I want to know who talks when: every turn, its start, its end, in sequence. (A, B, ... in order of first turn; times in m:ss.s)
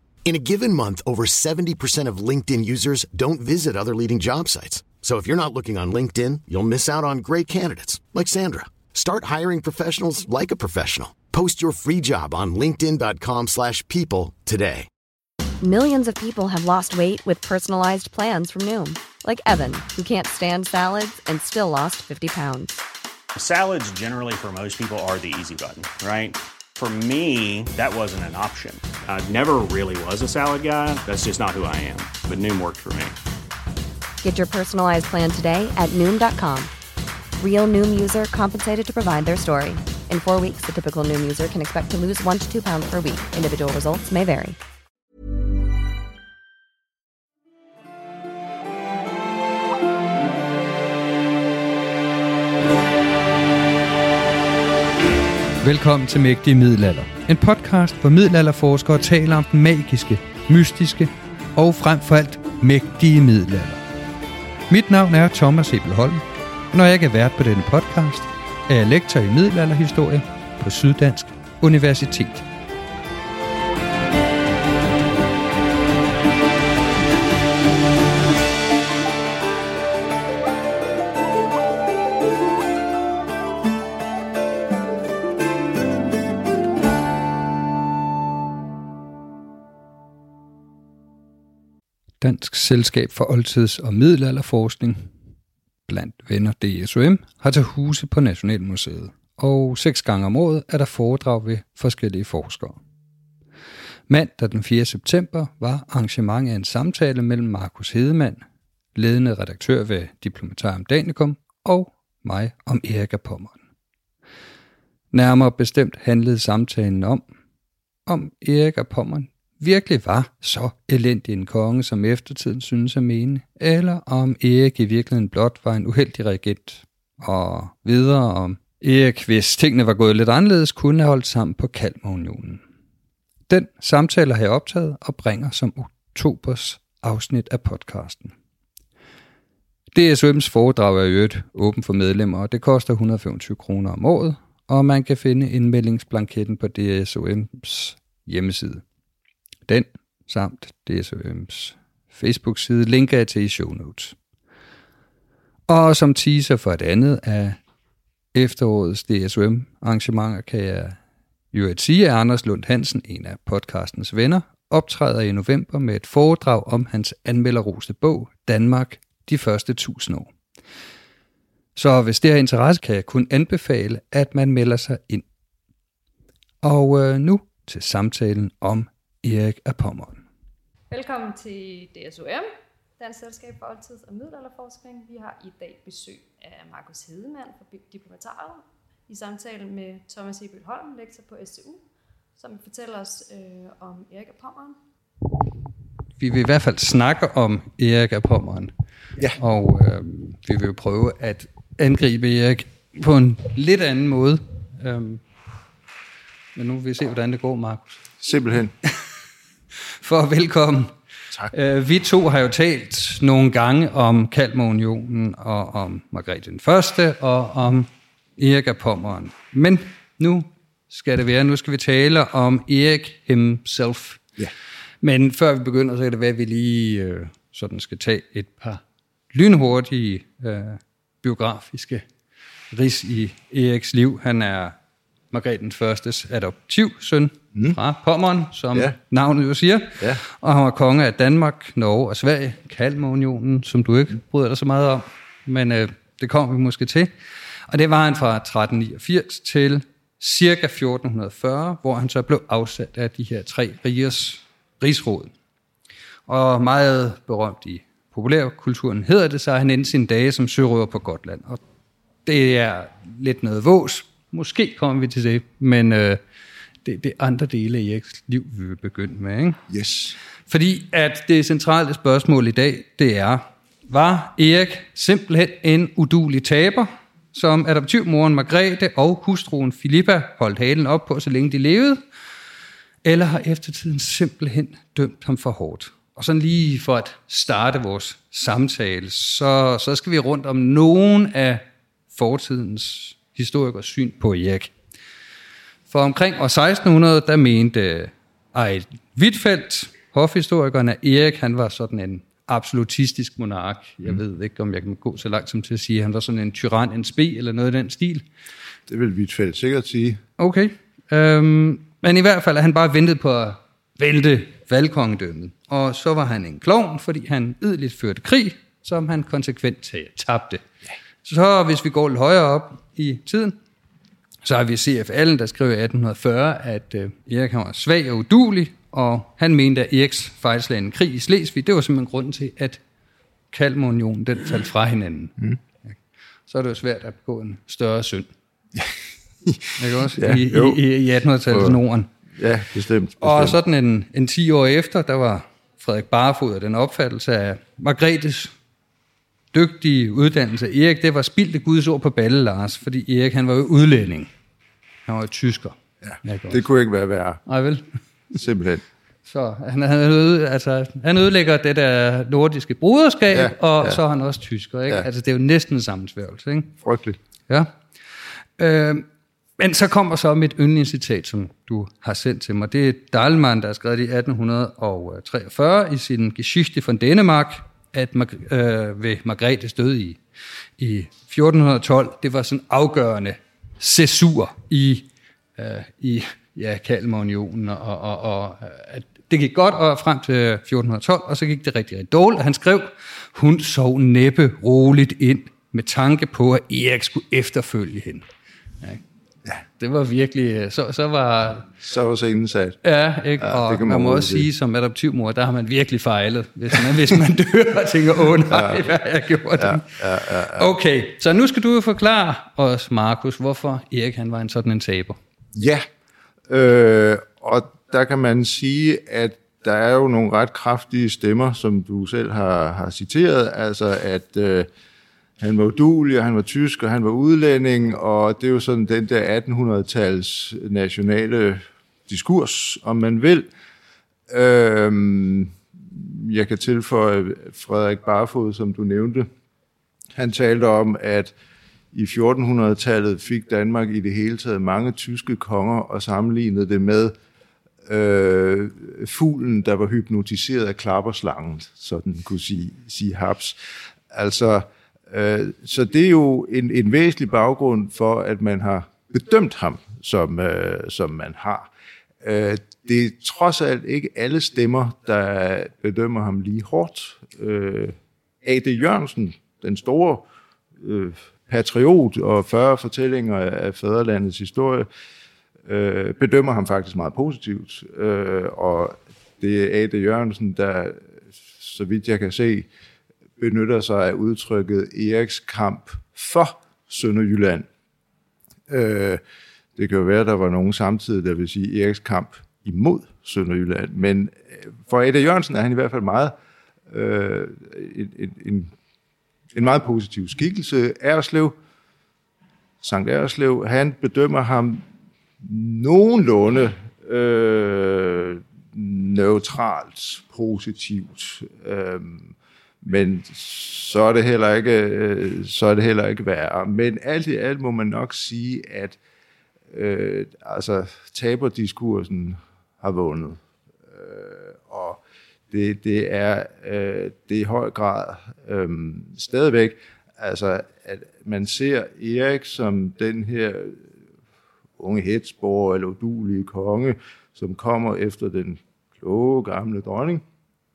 0:00.3-0:14.9 A
0:15.6-0:22.7 B
0:23.4-0:33.2 C
0:34.2-0:36.7 B
0:37.4-0:44.6 B
0:55.6-1:03.8 D
1:04.7-1:12.5 D
1:32.2-1:35.1 D
1:35.9-1:42.8 D
1:44.1-1:48.4 D
1:49.0-1:53.6 D
1:55.1-1:57.3 D
1:58.1-2:12.6 D
2:13.5-2:18.3 D
2:19.9-2:28.8 D
2:29.7-2:34.2 D
2:35.7-2:37.6 D
2:38.3-2:41.0 D
2:41.5-2:50.3 D
2:51.8-2:55.2 D
2:56.6-3:00.2 D
3:00.9-3:02.5 E
3:03.0-3:11.8 E
3:12.4-3:14.8 E
3:16.2-3:18.7 D
3:19.4-3:25.2 D
3:26.6-3:28.0 D
3:28.2-3:28.7 F
3:30.0-3:30.9 D
3:31.5-3:44.2 D
3:45.0-3:48.8 D
3:49.3-3:52.0 D
3:52.7-3:54.8 D
3:55.3-4:07.1 D
4:07.7-4:15.3 D
4:16.3-4:21.6 D
4:22.3-4:26.2 D
4:26.8-4:29.6 D
4:29.7-4:30.2 F
4:30.5-4:42.0 D
4:43.0-4:54.7 D
4:55.9-5:08.2 D
5:08.9-5:10.2 F
5:10.4-5:20.6 D
5:21.2-5:23.6 D
5:24.4-5:32.8 D
5:33.5-5:35.5 D
5:36.5-5:38.3 D
5:39.4-5:40.8 F
5:39.8-5:42.1 D
5:41.5-5:41.8 F
5:42.4-5:43.6 F
5:43.2-5:48.5 D
5:49.5-5:54.3 D
5:55.1-5:56.6 D
5:56.0-5:57.4 F
5:57.5-5:57.8 D
5:58.3-5:58.8 F
5:59.3-6:06.8 D
6:03.3-6:04.0 F
6:06.8-6:07.2 F
6:08.6-6:09.1 D
6:09.6-6:20.2 D
6:20.8-6:38.3 D
6:39.8-6:41.7 D
6:41.8-6:42.8 F
6:42.8-6:55.2 D
6:43.4-6:44.5 F
6:48.5-6:48.9 F
6:49.6-6:50.7 F
6:55.5-6:55.9 F
6:56.5-7:04.7 F
7:05.4-7:13.5 F
7:14.3-7:19.3 F
7:20.2-7:21.3 F
7:21.9-7:27.2 F
7:27.8-7:33.6 F
7:34.1-7:41.7 F
7:42.2-7:50.3 F
7:50.8-7:54.9 F
7:55.7-8:02.7 F
8:03.4-8:07.7 F
8:08.7-8:09.2 F
8:09.8-8:16.4 F
8:16.9-8:18.7 F
8:19.5-8:21.6 F
8:22.8-8:24.8 F
8:25.4-8:39.0 F
8:39.7-8:53.9 F
8:54.8-9:00.2 F